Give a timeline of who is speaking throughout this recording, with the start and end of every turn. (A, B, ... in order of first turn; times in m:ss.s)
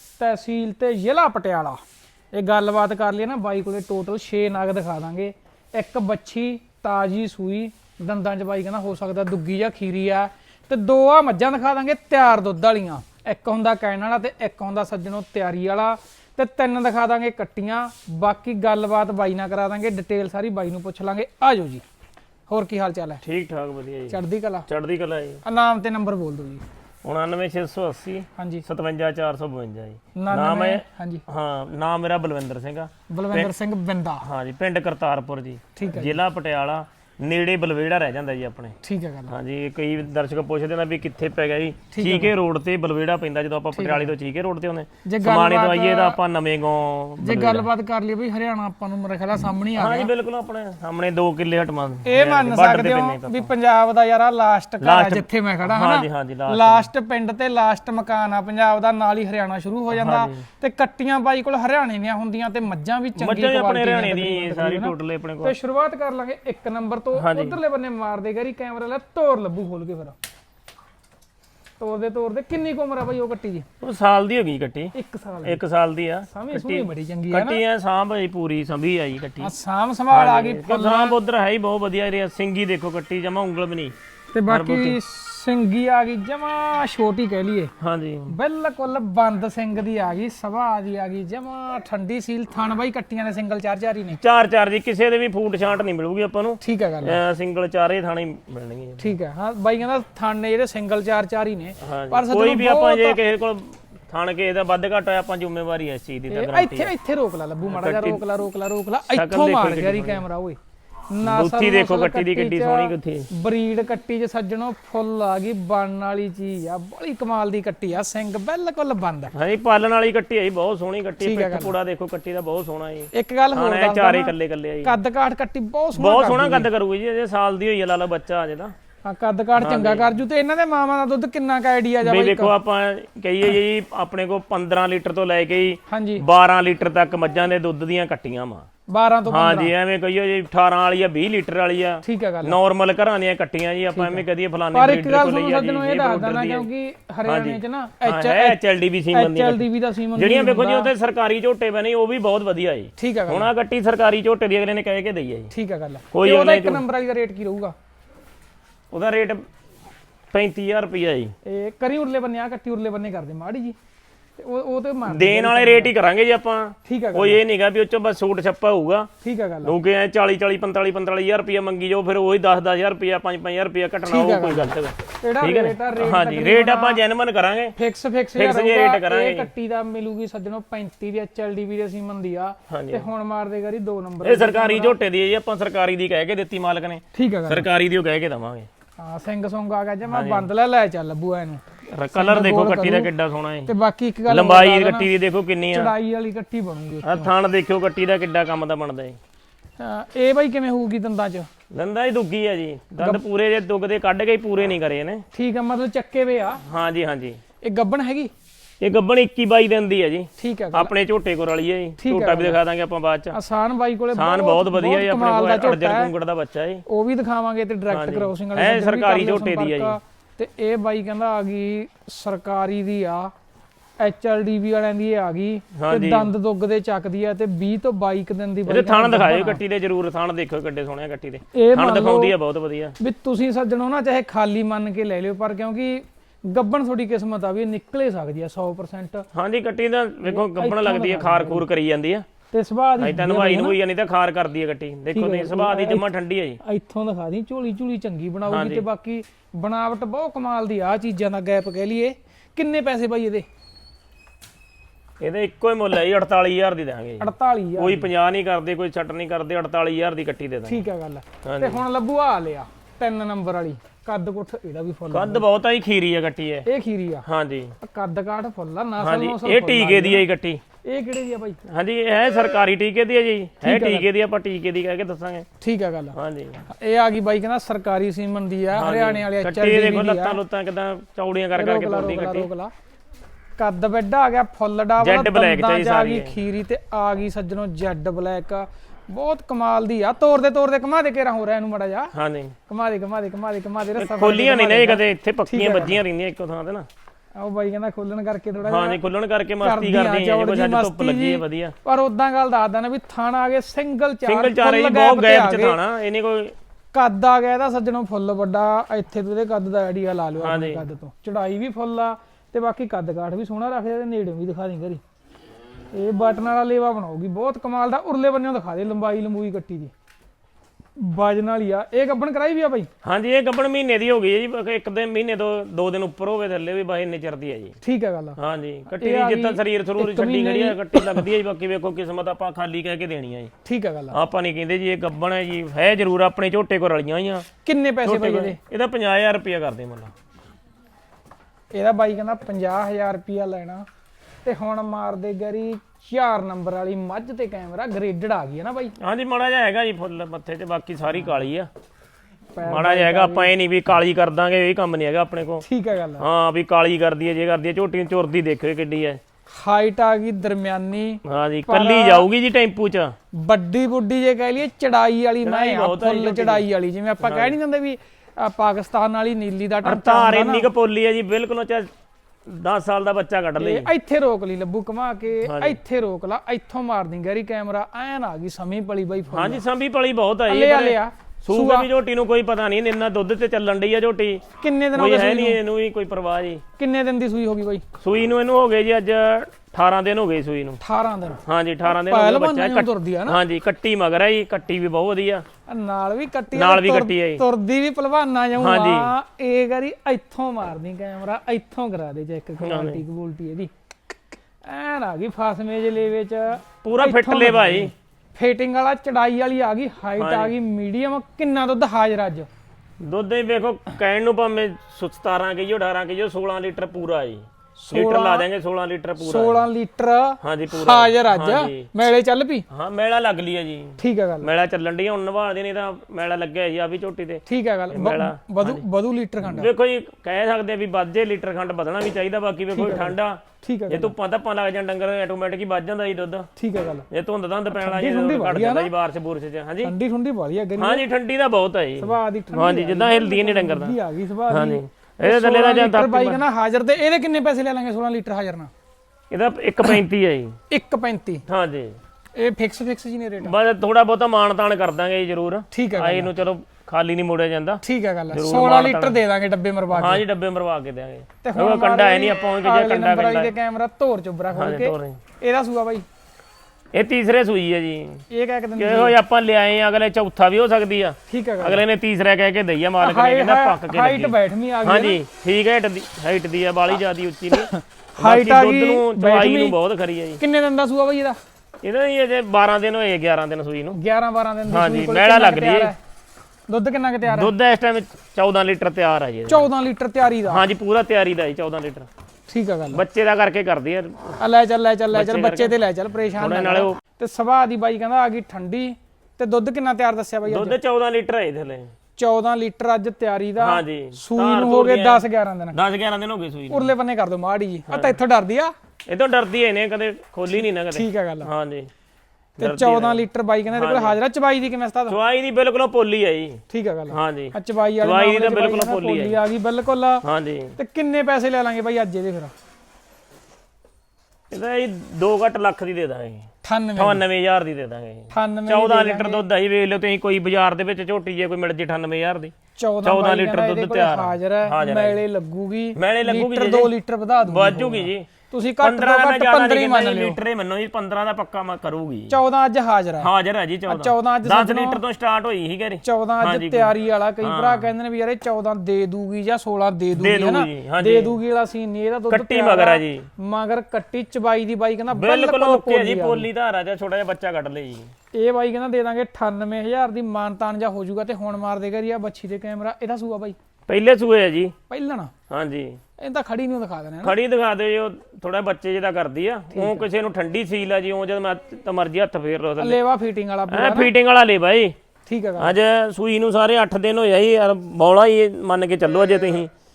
0:00.2-0:01.8 A
0:02.3-0:21.8 A
0:22.5-0:23.2 A
0:23.2-0:25.4 B
0:24.1-0:24.7 A
0:25.4-0:26.6 A
0:27.0-0:33.5 B
0:28.4-0:28.6 A
0:30.1-0:31.2 A
0:33.1-0:34.2 A
0:34.2-0:38.8 B
0:35.7-0:36.2 A
0:38.8-0:39.3 A
0:39.3-0:47.7 B
0:41.9-0:42.3 A
0:43.7-0:44.1 A
0:45.0-0:46.2 A
0:47.2-0:50.1 A
0:49.8-0:53.5 B
0:52.0-1:10.2 A
0:54.8-0:56.9 B
0:59.9-1:00.4 B
1:03.2-1:05.5 B
1:07.1-1:07.6 B
1:11.8-1:13.7 A
1:13.8-1:14.9 B
1:14.9-1:15.6 A
1:15.4-1:19.5 B
1:16.3-1:17.6 A
1:19.4-1:21.2 A
1:20.1-1:23.9 B
1:24.3-1:27.7 A
1:24.5-1:25.0 B
1:27.8-1:28.3 B
1:28.3-1:34.2 A
1:34.2-1:39.1 B
1:36.6-1:37.2 A
1:39.0-1:43.2 A
1:41.8-1:46.9 B
1:46.3-1:50.6 A
1:47.6-1:48.2 B
1:49.1-1:50.2 B
1:51.1-1:59.3 A
1:51.2-1:53.3 B
1:59.3-2:05.0 B
2:01.2-2:01.7 A
2:03.1-2:06.7 A
2:05.9-2:08.7 B
2:09.0-2:12.5 A
2:09.6-2:10.1 B
2:12.0-2:18.6 B
2:15.9-2:16.2 A
2:18.9-2:19.7 A
2:19.3-2:26.6 B
2:22.0-2:22.6 A
2:23.9-2:28.6 A
2:27.2-2:35.5 B
2:29.1-2:30.9 A
2:33.0-2:33.5 A
2:35.5-2:37.7 A
2:36.1-2:36.8 B
2:38.9-2:39.4 B
2:40.3-2:41.3 B
2:41.4-2:43.8 A
2:44.4-2:45.9 A
2:45.1-2:49.1 B
2:46.8-2:47.4 A
2:49.2-2:49.7 A
2:49.6-2:57.7 B
2:54.0-2:57.0 A
2:57.8-3:05.0 A
2:58.3-2:59.5 B
3:02.7-3:03.1 B
3:04.2-3:08.7 B
3:07.1-3:07.7 A
3:09.0-3:13.1 A
3:10.1-3:10.5 B
3:11.9-3:13.7 B
3:13.6-3:15.1 A
3:14.3-3:15.9 B
3:15.7-3:17.3 A
3:17.0-3:19.2 B
3:19.8-3:21.5 A
3:21.7-3:25.2 B
3:25.3-3:26.6 A
3:26.6-3:27.4 B
3:27.6-3:28.3 A
3:28.8-3:33.4 B
3:30.4-3:30.9 A
3:32.0-3:32.6 A
3:33.3-3:36.1 A
3:34.1-3:36.8 B
3:36.9-3:43.3 A
3:37.9-3:40.0 B
3:44.0-3:49.6 A
3:45.7-3:46.3 B
3:48.6-3:53.0 B
3:51.5-3:52.3 A
3:53.0-3:59.2 A
3:59.3-4:02.2 B
4:00.2-4:01.6 A
4:02.5-4:03.8 A
4:03.0-4:06.6 B
4:05.1-4:06.1 A
4:06.6-4:13.5 A
4:08.5-4:08.8 B
4:15.2-4:20.8 B
4:17.2-4:18.1 A
4:20.6-4:25.4 A
4:21.4-4:21.8 B
4:25.1-4:26.7 B
4:26.6-4:27.2 A
4:27.2-4:27.7 B
4:27.8-4:30.2 A
4:29.0-4:30.6 B
4:30.9-4:31.6 A
4:31.7-4:35.5 B
4:33.6-4:34.1 A
4:35.6-4:36.2 A
4:36.1-4:36.6 B
4:36.7-4:40.4 A
4:38.7-4:42.5 B
4:41.5-4:42.7 A
4:43.6-4:52.1 A
4:45.0-4:46.3 B
4:52.1-4:52.6 B
4:52.7-4:56.0 A
4:54.0-4:56.9 B
4:57.4-4:59.0 A
4:58.6-5:01.8 B
4:59.6-5:05.8 A
5:04.2-5:06.5 B
5:06.9-5:15.0 A
5:10.4-5:10.8 B
5:15.9-5:19.9 A
5:21.0-5:22.9 A
5:23.0-5:27.8 B
5:27.8-5:28.4 A
5:28.4-5:33.5 B
5:28.9-5:31.2 A
5:33.6-5:34.2 A
5:34.1-5:37.5 B
5:37.6-5:38.6 A
5:38.0-5:40.1 B
5:41.7-5:43.8 A
5:44.4-5:49.0 A
5:49.0-5:51.7 B
5:52.5-5:53.5 A
5:52.6-5:55.6 B
5:55.6-5:56.2 A
5:56.2-5:59.2 B
5:59.5-6:02.3 A
6:01.2-6:03.1 B
6:03.3-6:10.7 A
6:05.4-6:06.6 B
6:07.2-6:07.6 B
6:09.8-6:11.9 B
6:12.4-6:13.9 B
6:13.6-6:19.6 A
6:15.4-6:15.8 B
6:19.3-6:24.4 B
6:20.5-6:21.9 A
6:24.6-6:25.6 A
6:24.9-6:26.6 B
6:26.8-6:27.8 A
6:28.0-6:30.8 B
6:30.8-6:33.4 A
6:31.4-6:35.4 B
6:35.7-6:43.7 A
6:36.5-6:37.4 B
6:38.6-6:39.1 B
6:42.6-6:43.0 B
6:44.6-6:52.5 A
6:46.8-6:47.9 B
6:50.2-6:50.5 B
6:53.0-6:59.6 B
6:57.8-6:58.4 A
6:59.2-7:02.6 A
7:00.4-7:01.9 B
7:02.7-7:08.8 B
7:04.0-7:04.5 A
7:07.4-7:09.7 A
7:09.4-7:16.5 B
7:12.7-7:14.1 A
7:16.6-7:17.1 A
7:17.1-7:19.9 B
7:17.7-7:18.9 A
7:19.8-7:21.0 A
7:20.8-7:24.0 B
7:22.0-7:28.7 A
7:24.5-7:26.4 B
7:29.3-7:30.5 B
7:30.7-7:31.4 A
7:31.5-7:32.0 B
7:32.4-7:33.5 A
7:33.4-7:39.2 B
7:35.7-7:36.3 A
7:37.8-7:40.2 A
7:39.9-7:43.5 B
7:41.4-7:46.0 A
7:44.5-7:45.2 B
7:46.9-7:48.2 B
7:48.3-7:49.1 A
7:48.8-8:00.4 B
7:51.3-7:51.8 A
7:53.0-7:55.2 A
7:57.5-7:59.8 A
8:00.4-8:01.4 A
8:01.8-8:04.0 B
8:03.9-8:06.0 A
8:04.7-8:05.9 B
8:06.7-8:07.5 A
8:07.2-8:09.7 B
8:09.5-8:10.6 A
8:10.4-8:12.1 B
8:12.5-8:13.0 A
8:12.9-8:14.4 B
8:14.4-8:20.8 A
8:15.1-8:15.7 B
8:16.4-8:17.0 B
8:20.4-8:21.9 B
8:22.2-8:25.8 A
8:23.6-8:26.9 B
8:26.7-8:28.7 A
8:27.9-8:28.2 B
8:29.1-8:31.9 B
8:30.9-8:31.5 A
8:32.6-8:34.2 B
8:32.6-8:35.2 A
8:35.1-8:39.4 B
8:36.7-8:40.2 A
8:40.2-8:40.8 B
8:40.8-8:42.5 A
8:44.5-8:55.2 B
8:46.6-8:47.2 A
8:48.3-8:49.4 A
8:52.8-9:00.4 A
8:55.9-8:58.3 B
8:58.8-9:02.4 B
9:02.3-9:03.3 A
9:03.2-9:07.9 B
9:03.9-9:05.0 A
9:06.0-9:16.5 A
9:10.1-9:11.4 B
9:12.3-9:13.3 B
9:15.1-9:18.1 B
9:18.3-9:23.6 A
9:23.9-9:24.7 B
9:24.9-9:25.3 A
9:25.5-9:26.0 B
9:26.2-9:27.4 A
9:27.2-9:33.0 B
9:29.7-9:30.0 A
9:32.8-9:34.1 A
9:33.7-9:35.0 B
9:35.3-9:35.8 A
9:35.6-9:39.7 B